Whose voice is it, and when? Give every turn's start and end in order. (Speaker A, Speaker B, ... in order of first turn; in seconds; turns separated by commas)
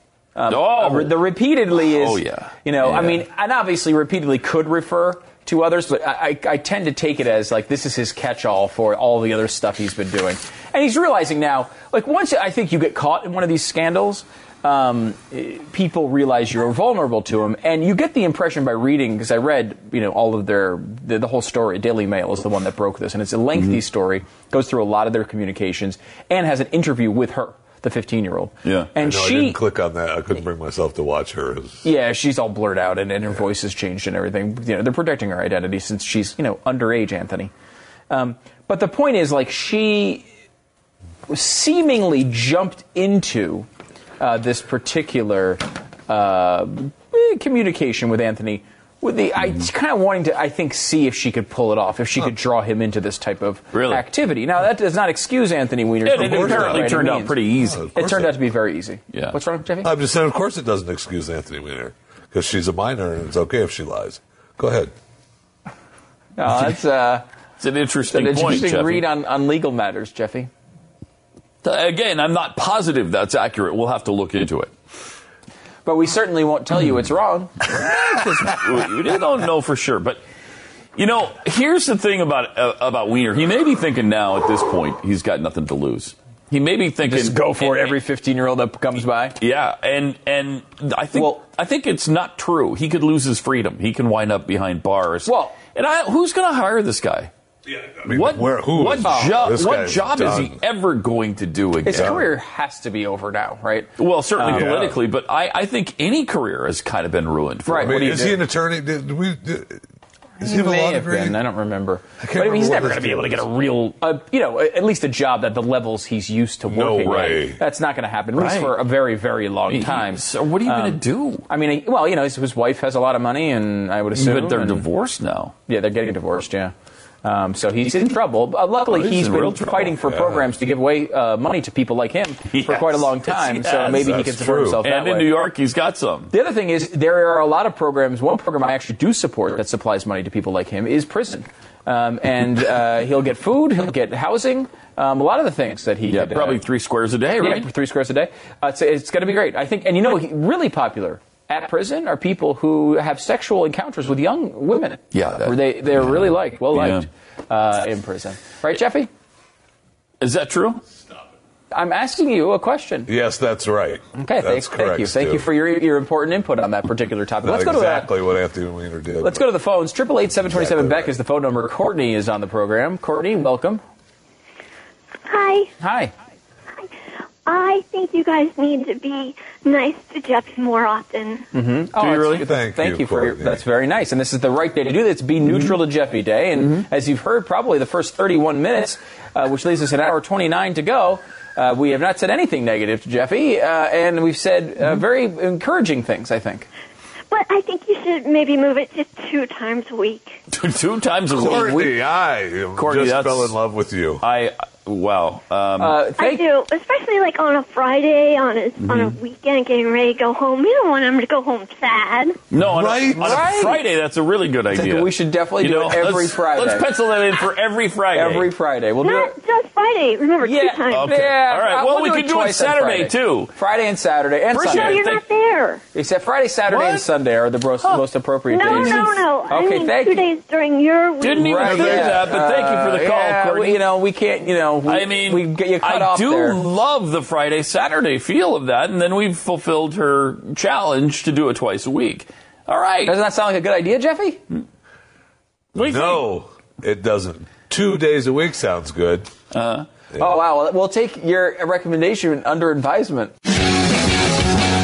Speaker A: 0.3-29.6, Speaker B: 0.5-1.2, Speaker B: 1.8-3.2, Speaker B: 28.6-28.9, Speaker C: 29.0-31.8, Speaker A: 31.8-37.5, Speaker A: 38.1-40.2, Speaker A: 41.3-43.7, Speaker A: 44.2-57.4, Speaker B: 53.7-54.0, Speaker B: 56.0-58.0, Speaker C: 56.1-57.0, Speaker C: 57.6-58.3, Speaker A: 57.9-59.9, Speaker C: 59.8-64.9, Speaker A: 66.4-67.2, Speaker B: 67.6-69.0, Speaker A: 68.1-70.5, Speaker B: 71.6-74.7, Speaker A: 75.8-77.7, Speaker B: 77.7-80.2, Speaker B: 81.0-88.0, Speaker A: 87.0-89.4, Speaker B: 89.4-97.3, Speaker A: 91.1-91.4, Speaker A: 95.2-95.6, Speaker C: 97.7-100.6, Speaker B: 98.0-102.3, Speaker A: 99.0-99.4, Speaker A: 101.8-104.8, Speaker C: 101.9-102.2, Speaker B: 104.0-108.1, Speaker C: 104.5-105.0, Speaker A: 107.6-108.4, Speaker C: 107.8-109.8, Speaker C: 110.4-111.4, Speaker A: 110.4-124.9, Speaker C: 112.2-113.5, Speaker C: 116.7-117.6, Speaker B: 117.0-117.4, Speaker B: 118.3-118.7, Speaker B: 119.7-121.5, Speaker B: 124.1-125.5, Speaker A: 125.7-135.4, Speaker B: 128.9-130.2, Speaker B: 132.5-134.2, Speaker C: 133.9-134.8, Speaker B: 134.8-136.3, Speaker A: 136.3-146.6, Speaker B: 146.1-147.7, Speaker A: 147.4-159.1, Speaker B: 155.1-157.1, Speaker B: 160.2-160.8, Speaker A: 161.7-163.1, Speaker C: 163.1-165.4, Speaker A: 164.1-168.1, Speaker C: 167.4-169.4, Speaker A: 169.2-173.8, Speaker C: 170.4-171.1, Speaker D: 175.3-175.7, Speaker A: 175.8-176.1, Speaker D: 177.4-181.4, Speaker A: 181.5-196.7, Speaker B: 182.0-182.4, Speaker C: 182.4-183.6, Speaker D: 197.3-200.4, Speaker B: 200.5-202.1, Speaker C: 201.3-204.2, Speaker B: 202.7-203.6, Speaker B: 204.2-206.0, Speaker A: 205.8-206.5, Speaker D: 206.2-212.4, Speaker B: 208.8-209.2, Speaker B: 212.5-218.5, Speaker C: 212.7-213.4, Speaker A: 213.1-213.8, Speaker A: 214.7-216.9, Speaker A: 218.1-219.4, Speaker D: 219.0-221.2, Speaker A: 220.4-224.9, Speaker B: 220.9-223.5, Speaker B: 224.5-225.2, Speaker D: 224.7-225.8, Speaker A: 225.9-230.3, Speaker B: 226.7-227.1, Speaker D: 228.5-232.2, Speaker B: 228.6-229.2, Speaker B: 231.2-233.8, Speaker A: 231.4-236.6, Speaker B: 234.8-243.2, Speaker A: 243.0-244.4, Speaker C: 245.7-249.3, Speaker B: 245.8-246.2, Speaker B: 249.5-249.9, Speaker A: 250.2-253.3